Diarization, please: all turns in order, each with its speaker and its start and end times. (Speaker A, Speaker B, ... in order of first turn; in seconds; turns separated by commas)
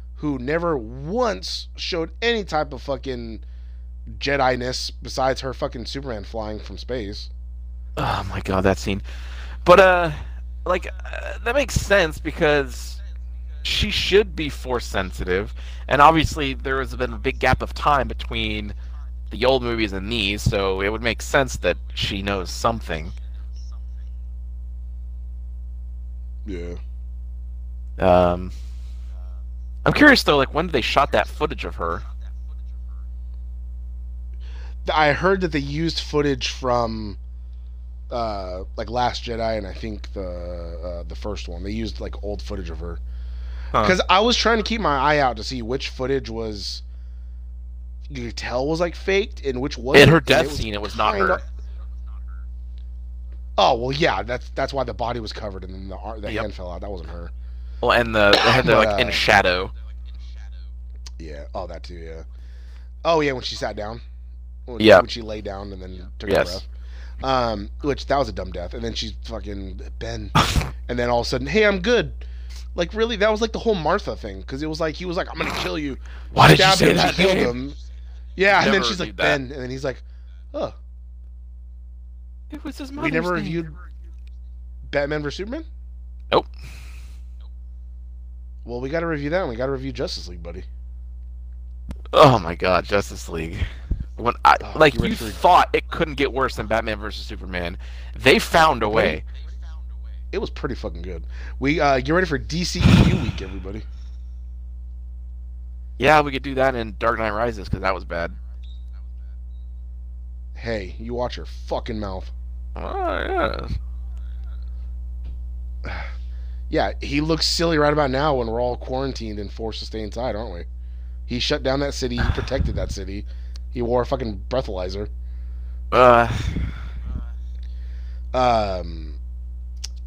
Speaker A: 0.1-3.4, Speaker A: 4.1-7.3, Speaker B: 8.0-9.0, Speaker B: 9.6-13.0, Speaker B: 13.6-18.7, Speaker B: 19.3-23.1, Speaker A: 26.4-26.8, Speaker B: 28.0-28.5, Speaker B: 29.8-32.0, Speaker A: 34.8-37.2, Speaker A: 38.1-43.0, Speaker A: 43.8-46.8, Speaker A: 48.1-51.4, Speaker B: 49.9-51.4, Speaker A: 53.6-57.3, Speaker B: 57.8-59.7, Speaker A: 58.3-59.2, Speaker A: 61.2-62.2, Speaker A: 63.0-64.0, Speaker A: 64.7-66.7, Speaker B: 64.8-65.0, Speaker B: 66.2-66.6, Speaker A: 67.2-70.3, Speaker B: 70.4-70.7, Speaker A: 70.8-72.2, Speaker A: 72.7-77.8, Speaker B: 76.3-77.5, Speaker A: 78.3-80.8, Speaker B: 78.5-79.4, Speaker B: 82.5-83.6, Speaker A: 83.0-83.7, Speaker A: 84.8-85.7, Speaker A: 88.6-90.7, Speaker B: 92.1-93.7, Speaker B: 94.2-99.2, Speaker A: 94.6-95.4, Speaker A: 98.8-99.2, Speaker A: 100.3-103.8, Speaker B: 106.0-108.4, Speaker A: 110.5-112.3, Speaker B: 112.8-113.7, Speaker A: 115.8-116.1, Speaker A: 116.7-120.7, Speaker A: 121.3-125.1, Speaker B: 125.9-126.8, Speaker A: 128.3-129.2